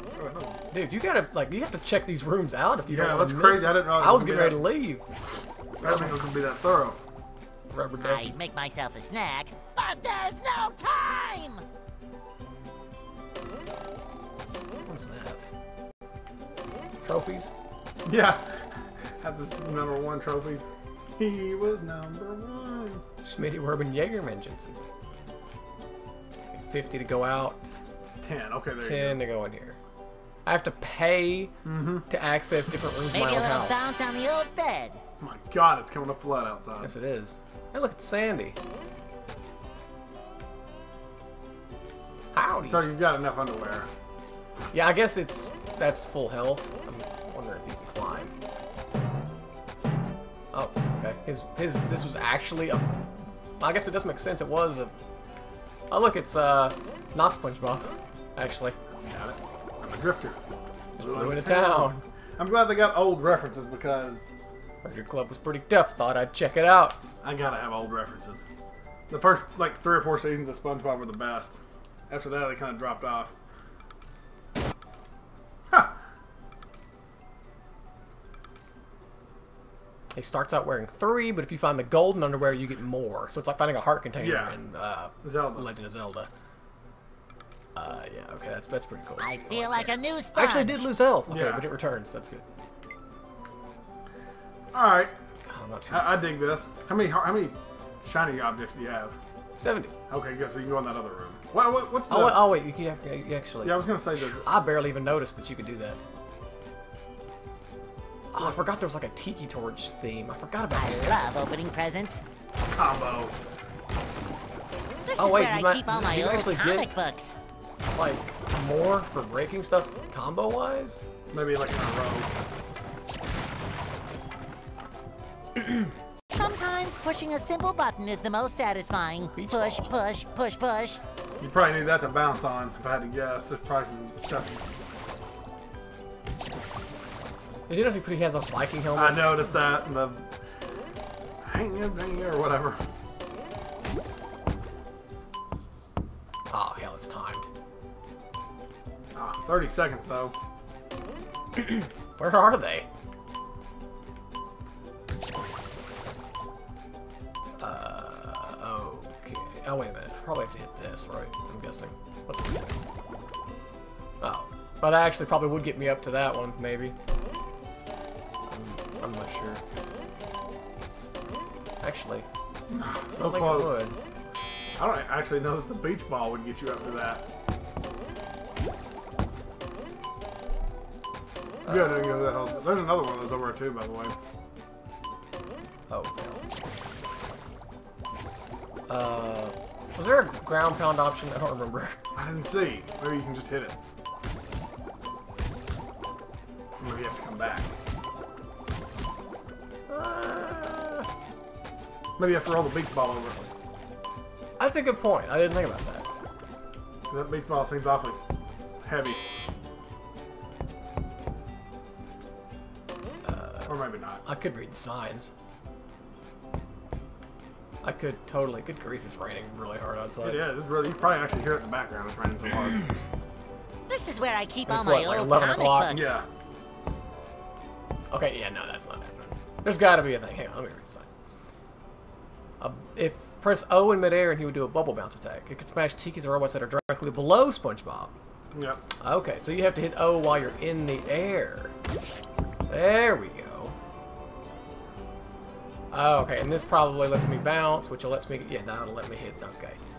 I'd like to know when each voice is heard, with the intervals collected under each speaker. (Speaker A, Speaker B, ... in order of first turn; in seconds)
Speaker A: 0.2-0.6, 2.9-4.6, 5.8-7.0, 18.1-23.0, 28.2-29.2, 31.6-32.1, 35.2-37.0, 42.6-43.9, 59.0-60.4, 61.0-64.3, 67.2-68.5, 69.1-73.3, 84.2-84.6, 85.2-85.7, 91.3-91.7, 94.7-95.1, 95.9-99.2, 100.1-102.4, 103.6-104.5, 108.4-108.6, 112.7-113.4, 121.3-122.3, 131.4-134.6, 138.9-140.3, 141.4-142.8, 149.1-150.3, 172.7-173.8, 174.8-177.3, 181.7-184.2, 192.2-193.8, 196.8-197.7, 202.2-203.5, 207.1-208.2, 208.8-209.2, 213.7-214.2, 220.2-223.0, 225.9-226.3, 238.5-238.8
Speaker B: 0.7-5.0, 5.8-6.2, 7.7-8.4, 14.9-15.4, 17.0-17.5, 23.2-24.8, 26.5-27.8, 28.8-29.8, 30.5-31.6, 32.1-34.0, 36.8-38.6, 42.3-42.9, 44.7-48.3, 50.5-54.9, 55.9-58.8, 61.0-62.0, 64.8-67.0, 80.2-86.3, 87.8-92.4, 95.5-96.2, 99.6-99.9, 102.1-106.0, 108.3-111.5, 115.2-116.9, 117.9-121.1, 129.3-129.9, 137.7-139.6, 146.5-147.5, 151.6-152.9, 157.6-162.8, 164.2-166.9, 168.5-169.6, 171.8-172.3, 173.1-174.0, 181.6-182.1, 185.9-186.5, 188.9-192.0, 199.9-201.1, 204.6-206.1, 213.2-215.3, 217.8-220.5, 224.7-226.0, 228.1-231.1, 232.6-238.1, 239.0-241.7, 242.7-243.8, 245.9-249.8
Speaker C: 8.0-11.6, 33.1-35.0, 89.2-90.9, 110.8-112.2, 115.1-117.3, 126.3-131.0, 223.9-226.2